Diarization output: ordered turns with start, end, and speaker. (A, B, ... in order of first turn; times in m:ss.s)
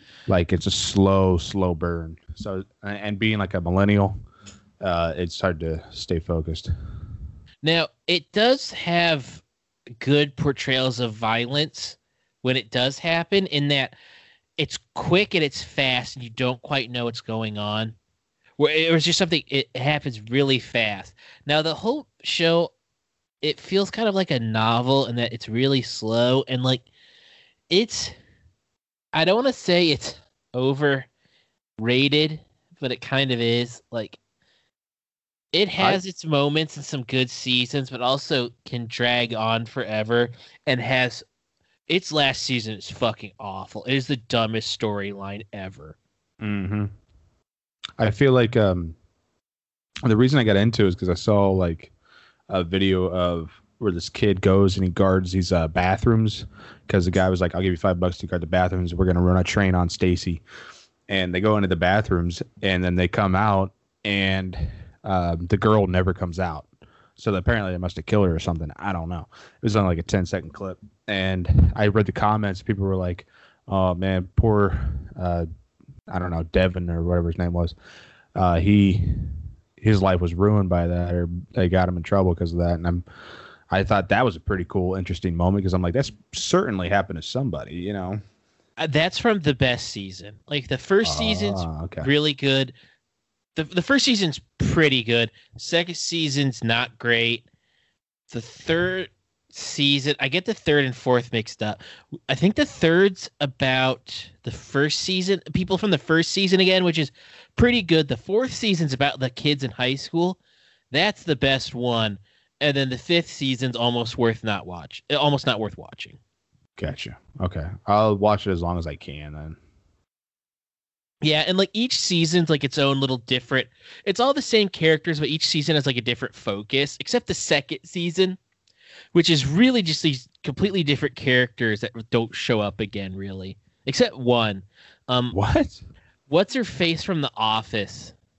0:00.3-0:04.2 A
0:04.8-0:06.7 A
0:07.6-0:09.4 B
0:10.0-0:14.0 B
0:14.6-0:17.9 B
0:18.6-0:22.7 B
0:23.4-0:26.8 B
0:27.7-0:28.1 B
0:29.1-0:31.1 B
0:31.8-0:34.2 B
0:35.5-0:41.2 B
0:41.9-0:46.0 B
0:46.4-0:46.9 A
0:48.0-0:49.0 A
0:50.0-0:51.9 A
0:52.5-1:00.4 A
1:01.1-1:15.5 A
1:16.1-1:17.8 A
1:18.3-1:23.0 A
1:23.7-1:28.2 A
1:28.8-1:32.7 B
1:31.0-1:32.1 A
1:33.5-1:37.4 B
1:38.3-1:50.4 B
1:50.9-1:56.2 B
1:56.8-1:59.6 A
2:01.2-2:08.4 B
2:09.1-2:15.4 B
2:15.3-2:15.8 A
2:16.3-2:18.1 B